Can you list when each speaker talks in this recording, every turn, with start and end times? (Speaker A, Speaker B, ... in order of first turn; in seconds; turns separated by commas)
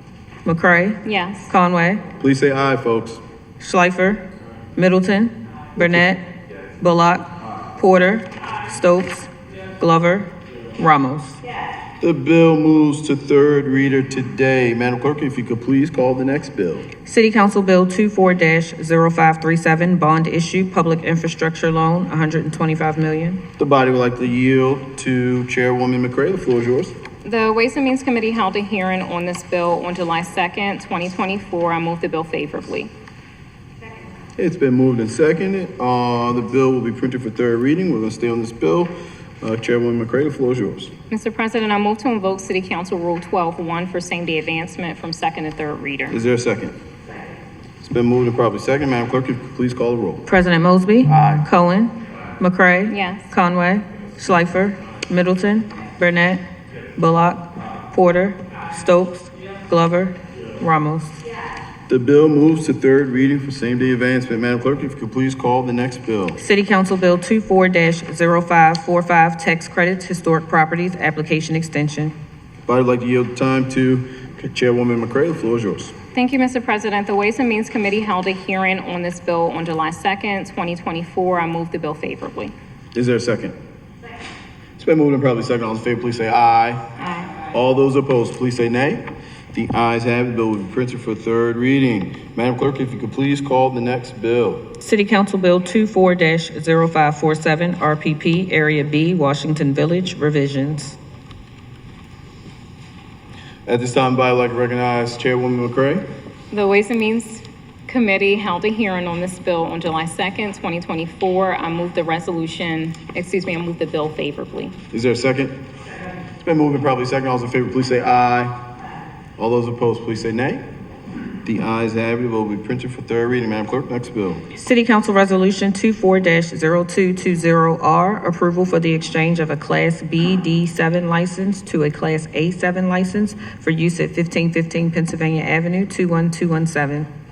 Speaker A: 0.5-2.0, Speaker B: 1.1-1.5, Speaker C: 2.2-3.2, Speaker A: 3.6-4.2, Speaker A: 4.8-6.2, Speaker A: 6.8-11.4, Speaker C: 12.0-16.9, Speaker A: 17.1-23.4, Speaker C: 23.6-26.9, Speaker B: 27.2-32.9, Speaker C: 34.4-40.9, Speaker B: 41.1-46.2, Speaker C: 46.1-46.8, Speaker C: 47.8-50.3, Speaker A: 50.3-56.4, Speaker C: 51.1-51.5, Speaker B: 52.9-53.3, Speaker A: 57.0-61.2, Speaker C: 61.9-66.4, Speaker A: 66.4-72.1, Speaker C: 72.7-76.0, Speaker B: 76.1-82.5, Speaker C: 82.9-83.5, Speaker C: 84.8-86.8, Speaker B: 87.0-87.4, Speaker C: 87.5-94.7, Speaker A: 94.8-101.0, Speaker C: 103.7-106.0, Speaker B: 106.5-114.8, Speaker C: 114.9-115.5, Speaker C: 116.4-118.6, Speaker C: 119.4-120.6, Speaker C: 121.5-124.4, Speaker A: 124.5-137.1